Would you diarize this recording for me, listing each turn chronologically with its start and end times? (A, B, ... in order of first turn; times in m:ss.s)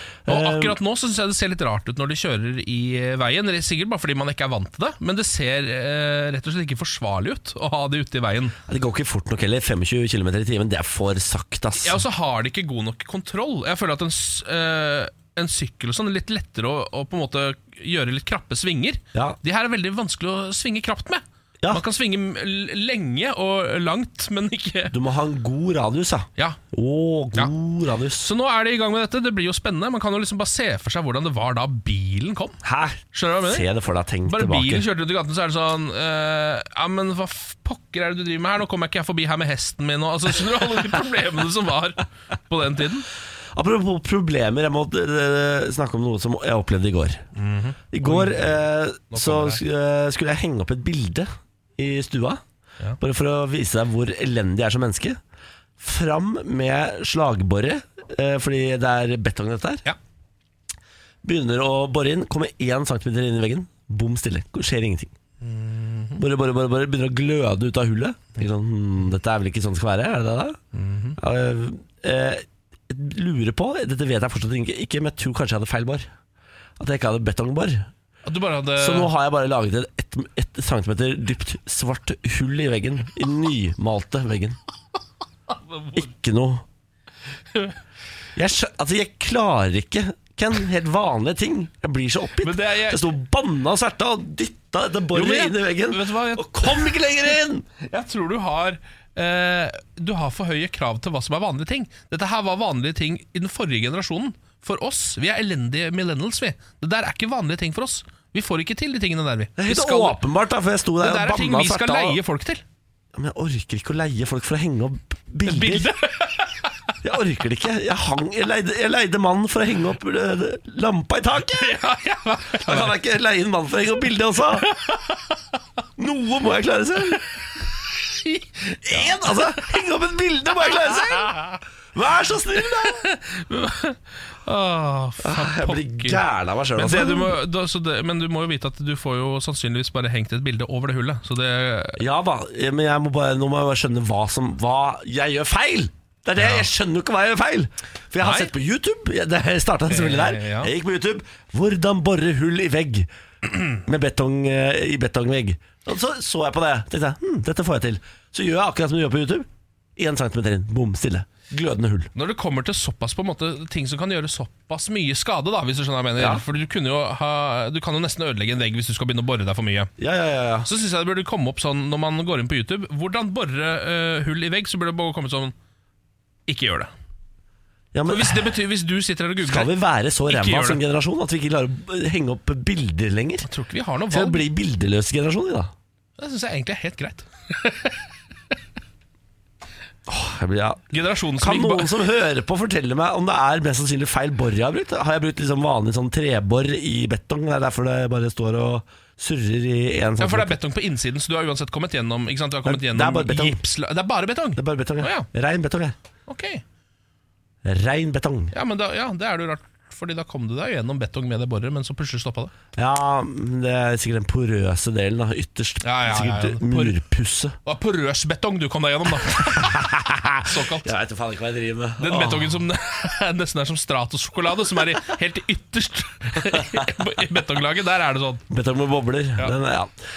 0:00.3-0:00.8 A
0:00.3-0:08.6 B
0:08.7-0:12.0 A
0:11.8-0:25.0 B
0:24.9-0:28.3 A
0:28.2-0:32.6 B
0:32.6-0:34.8 A
0:33.1-0:33.7 B
0:34.3-0:43.1 B
0:43.6-0:47.2 A
0:47.4-0:48.6 B
0:47.9-0:52.4 A
0:49.1-0:49.6 B
0:53.0-0:55.2 A
0:55.8-0:59.8 A
1:01.2-1:05.1 A
1:05.4-1:06.2 B
1:06.2-1:10.6 A
1:10.7-1:11.2 B
1:11.2-1:16.1 A
1:16.8-1:17.9 A
1:18.2-1:19.1 B
1:18.8-1:24.6 A
1:25.5-1:26.1 B
1:26.0-1:26.6 A
1:27.5-1:27.8 B
1:28.4-1:37.7 A
1:32.4-1:33.1 B
1:35.1-1:50.2 B
1:49.6-1:52.2 A
1:51.0-1:52.6 B
1:53.2-1:55.9 A
1:55.5-1:56.7 B
1:57.0-2:01.8 A
2:01.5-2:03.0 B
2:02.6-2:04.7 A
2:04.6-2:05.6 B
2:06.0-2:07.2 A
2:07.6-2:09.7 B
2:08.9-2:11.4 A
2:10.6-2:11.6 B
2:11.9-2:13.1 A
2:12.6-2:16.2 B
2:15.2-2:17.4 A
2:16.7-2:22.0 B
2:22.0-2:33.1 A
2:26.4-2:26.7 B
2:28.2-2:28.5 B
2:29.9-2:30.7 B
2:33.8-2:42.1 A
2:42.2-2:49.9 B
2:46.2-2:46.4 A
2:50.0-2:50.7 A
2:50.6-2:55.5 B
2:56.5-2:56.9 B
2:57.9-2:58.5 A
2:58.1-2:59.7 B
2:59.4-3:03.5 A
3:00.3-3:00.8 B
3:03.4-3:04.4 B
3:04.1-3:05.7 A
3:06.2-3:08.1 B
3:10.1-3:10.9 A
3:10.9-3:12.0 B
3:11.4-3:20.6 A
3:20.2-3:25.3 B
3:22.7-3:23.6 A
3:24.6-3:26.0 A
3:26.3-3:26.6 B
3:27.6-3:28.5 A
3:28.5-3:32.5 B
3:32.8-3:37.6 A
3:35.8-3:37.0 B
3:37.6-3:40.9 B
3:39.5-3:42.6 A
3:42.0-3:48.5 B
3:46.5-3:46.9 A
3:48.5-3:49.9 A